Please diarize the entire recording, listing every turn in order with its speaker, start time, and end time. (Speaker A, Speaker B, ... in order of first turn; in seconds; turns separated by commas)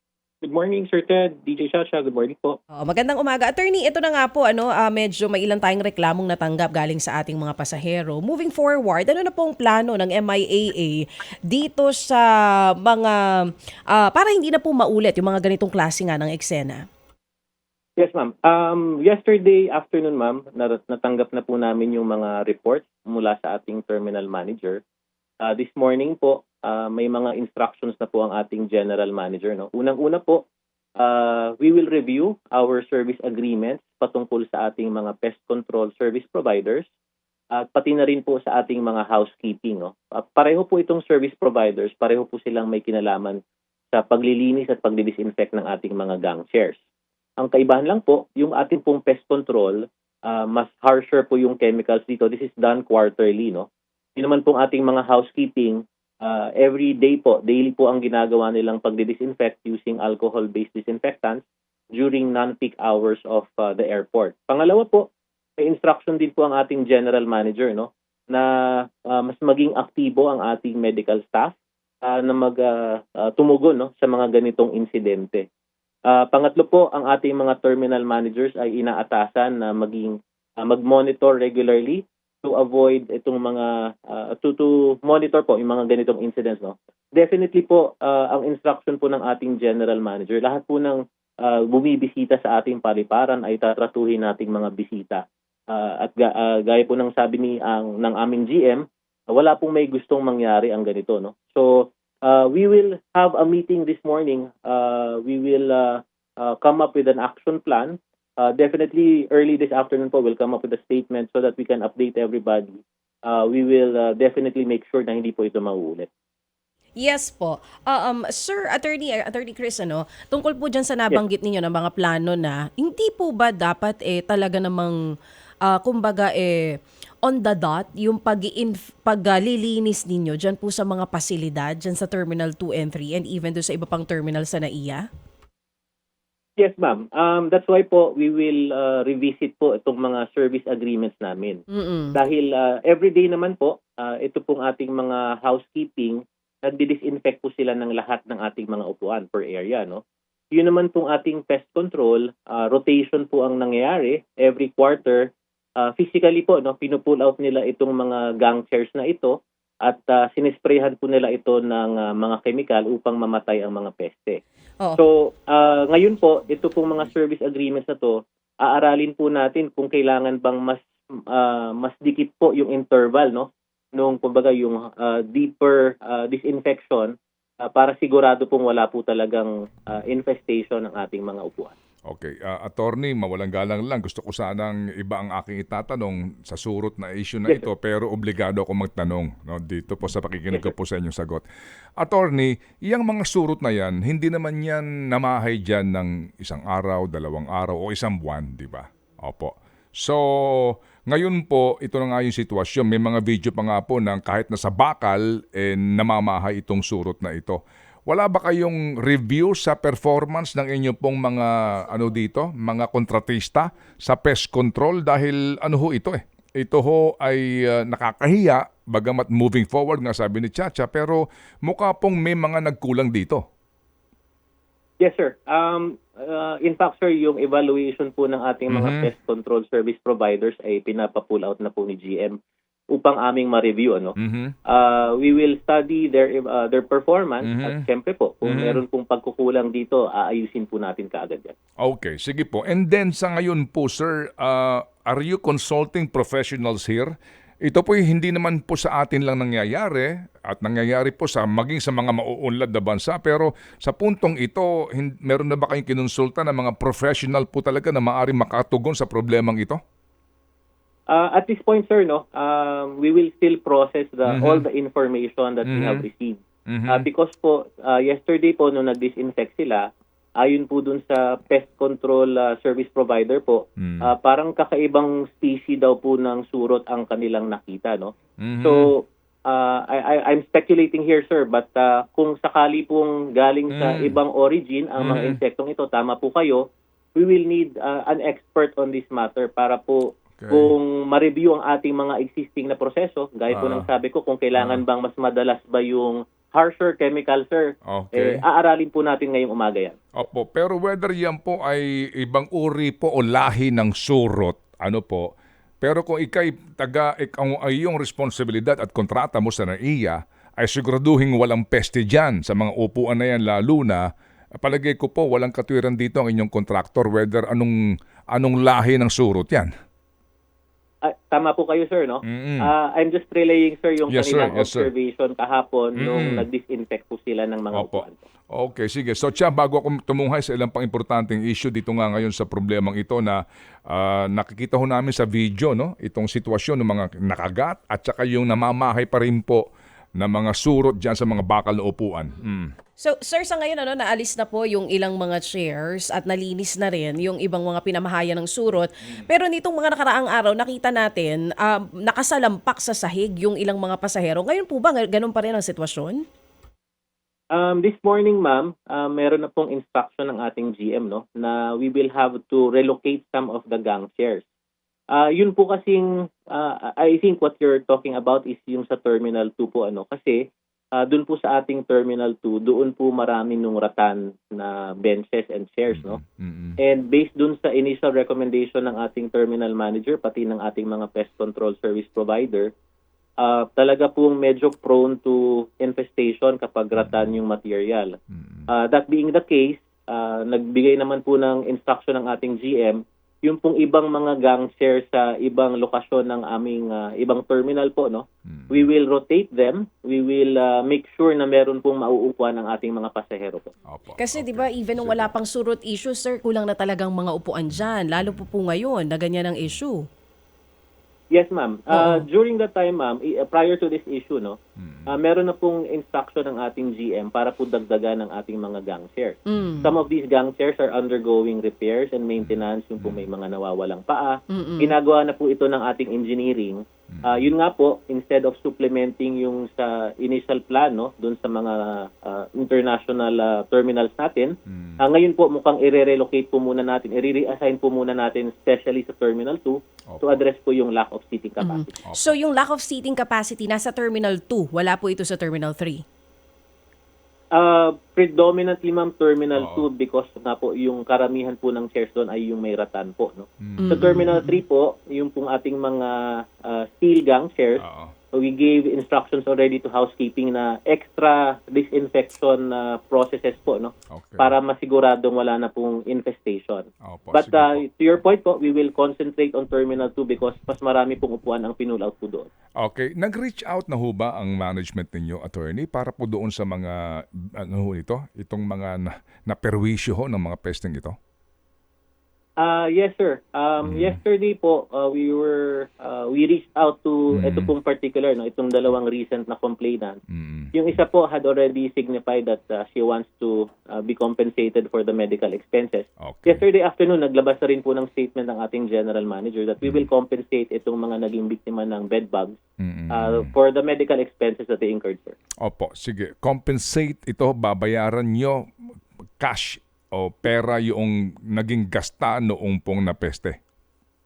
Speaker A: 0.4-2.6, Speaker B: 2.8-12.3, Speaker B: 12.8-16.8, Speaker A: 18.0-24.8, Speaker A: 25.4-30.4, Speaker A: 31.0-36.9, Speaker A: 37.5-43.4, Speaker A: 43.9-46.8, Speaker A: 47.4-61.4, Speaker A: 62.0-65.1, Speaker A: 65.6-68.5, Speaker A: 69.1-75.5, Speaker A: 76.1-116.1, Speaker B: 117.0-125.0, Speaker B: 125.7-135.1, Speaker A: 136.6-141.6, Speaker B: 141.7-142.2, Speaker A: 142.1-150.0, Speaker A: 150.5-164.4, Speaker A: 165.0-181.8, Speaker C: 182.1-191.4, Speaker C: 192.0-223.4, Speaker A: 225.0-232.4, Speaker C: 228.7-229.1, Speaker A: 232.9-234.2, Speaker C: 234.2-234.6, Speaker A: 234.7-241.5, Speaker C: 237.4-237.8, Speaker C: 238.4-238.8, Speaker C: 241.8-247.1, Speaker C: 247.7-259.8, Speaker A: 261.1-269.9, Speaker C: 264.3-264.7, Speaker C: 265.7-266.0, Speaker C: 266.7-267.1, Speaker A: 270.4-278.1, Speaker C: 273.8-274.1, Speaker C: 278.4-278.8, Speaker A: 278.6-286.6, Speaker C: 283.7-284.2, Speaker C: 285.0-285.4, Speaker A: 287.2-300.0, Speaker C: 290.4-290.7, Speaker C: 293.5-293.9, Speaker C: 294.6-294.8, Speaker C: 297.9-298.4, Speaker C: 300.2-305.3, Speaker C: 305.8-314.1, Speaker C: 314.6-317.8, Speaker C: 318.3-319.7, Speaker A: 321.0-328.2, Speaker C: 322.3-322.7, Speaker C: 324.1-324.9, Speaker C: 326.0-326.5, Speaker C: 327.7-339.6, Speaker C: 340.2-342.7, Speaker B: 343.0-356.2, Speaker A: 357.5-364.4, Speaker A: 365.1-370.4, Speaker A: 371.0-376.2, Speaker C: 375.9-376.8, Speaker A: 376.8-382.7, Speaker A: 383.4-388.1, Speaker C: 387.0-387.4, Speaker C: 388.3-388.7, Speaker A: 388.7-403.7, Speaker C: 398.5-398.9, Speaker C: 403.9-405.3, Speaker B: 404.2-410.0, Speaker C: 408.2-408.4, Speaker A: 411.3-414.6, Speaker B: 411.9-412.2, Speaker C: 414.8-415.1, Speaker A: 415.1-441.9, Speaker B: 419.5-419.9, Speaker C: 422.4-423.3, Speaker B: 424.5-424.9, Speaker C: 427.1-427.5, Speaker C: 434.7-435.0, Speaker C: 440.1-440.4, Speaker B: 441.6-446.0, Speaker C: 442.1-442.4, Speaker A: 447.6-472.5, Speaker C: 449.6-449.9, Speaker C: 453.6-454.2, Speaker B: 453.8-454.5, Speaker C: 457.8-458.1, Speaker C: 464.1-464.5, Speaker C: 467.0-467.8, Speaker C: 472.8-481.2, Speaker A: 482.6-490.2, Speaker C: 483.8-484.2, Speaker C: 487.3-487.7, Speaker C: 490.3-490.7, Speaker A: 490.7-502.6, Speaker C: 496.2-496.6, Speaker C: 502.8-503.5, Speaker A: 503.1-505.4, Speaker C: 505.6-508.6, Speaker C: 509.4-513.6